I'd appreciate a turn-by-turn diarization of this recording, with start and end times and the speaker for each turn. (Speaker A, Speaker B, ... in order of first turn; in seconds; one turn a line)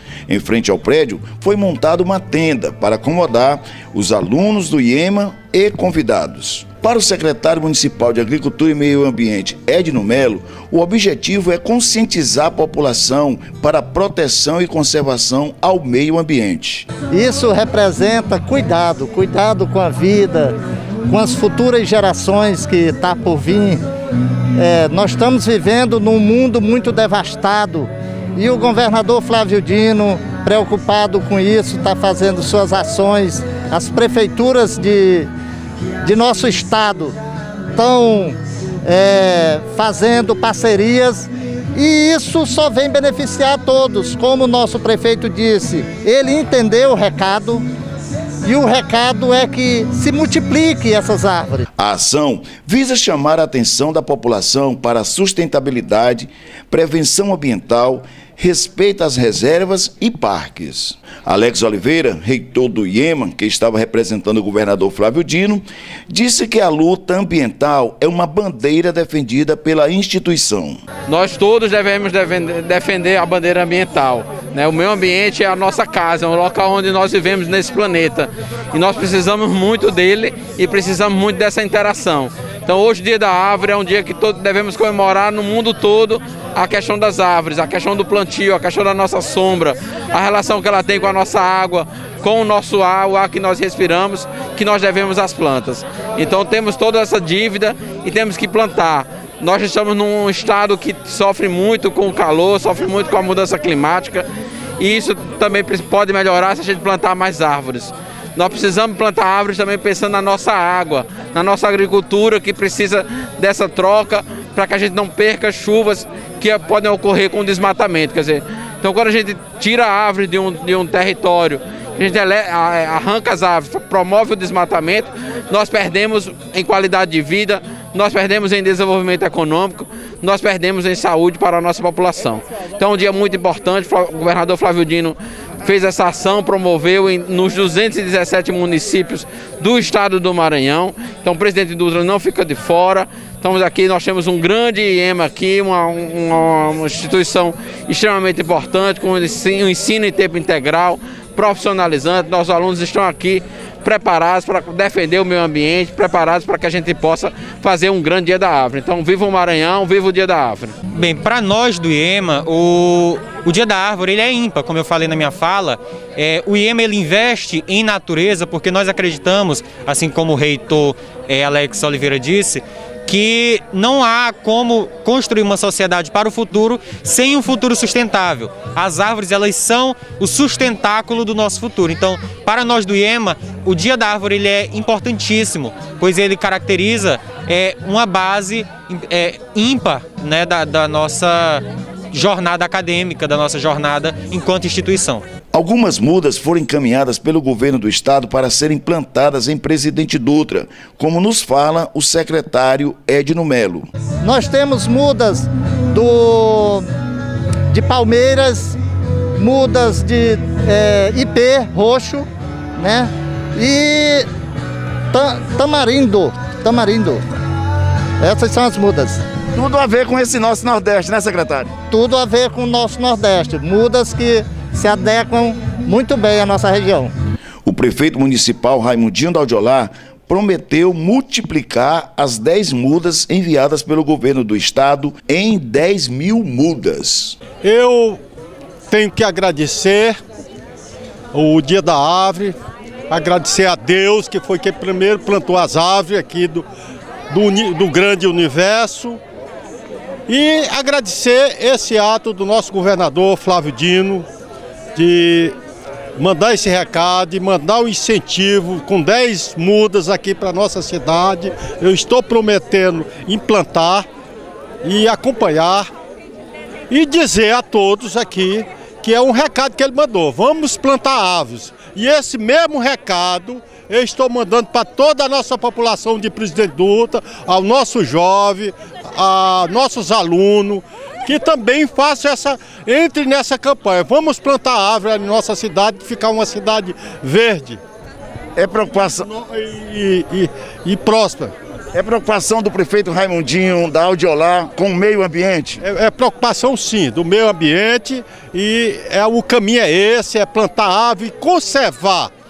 Speaker A: 0.3-16.9
Speaker B: 17.1-20.6
Speaker B: 21.1-23.8
Speaker B: 24.6-35.3
Speaker B: 36.0-37.1
Speaker B: 37.7-47.6
Speaker B: 48.4-51.7
Speaker A: 51.8-70.8
Speaker C: 71.1-104.3
Speaker C: 104.8-160.7
Speaker D: 160.9-195.2
Speaker A: 195.5-203.9
Speaker B: 204.2-206.9
Speaker B: 207.7-208.8
Speaker B: 209.3-214.2
Speaker B: 215.1-217.2
Speaker B: 218.2-219.2
Speaker A: 219.5-221.7
Speaker B: 221.9-227.1
Speaker A: 227.6-237.4
Speaker E: 237.6-238.2
Speaker E: 238.9-240.2
Speaker E: 241.3-242.6
Speaker E: 243.1-246.7
Speaker E: 247.3-249.2
Speaker E: 250.3-254.3
Speaker E: 254.9-255.6
Speaker E: 256.2-264.1
Speaker E: 264.8-265.9
Speaker E: 266.9-287.8
Speaker A: 288.6-289.3
Speaker E: 289.2-291.5
Speaker A: 291.9-295.8
Speaker E: 295.8-302.3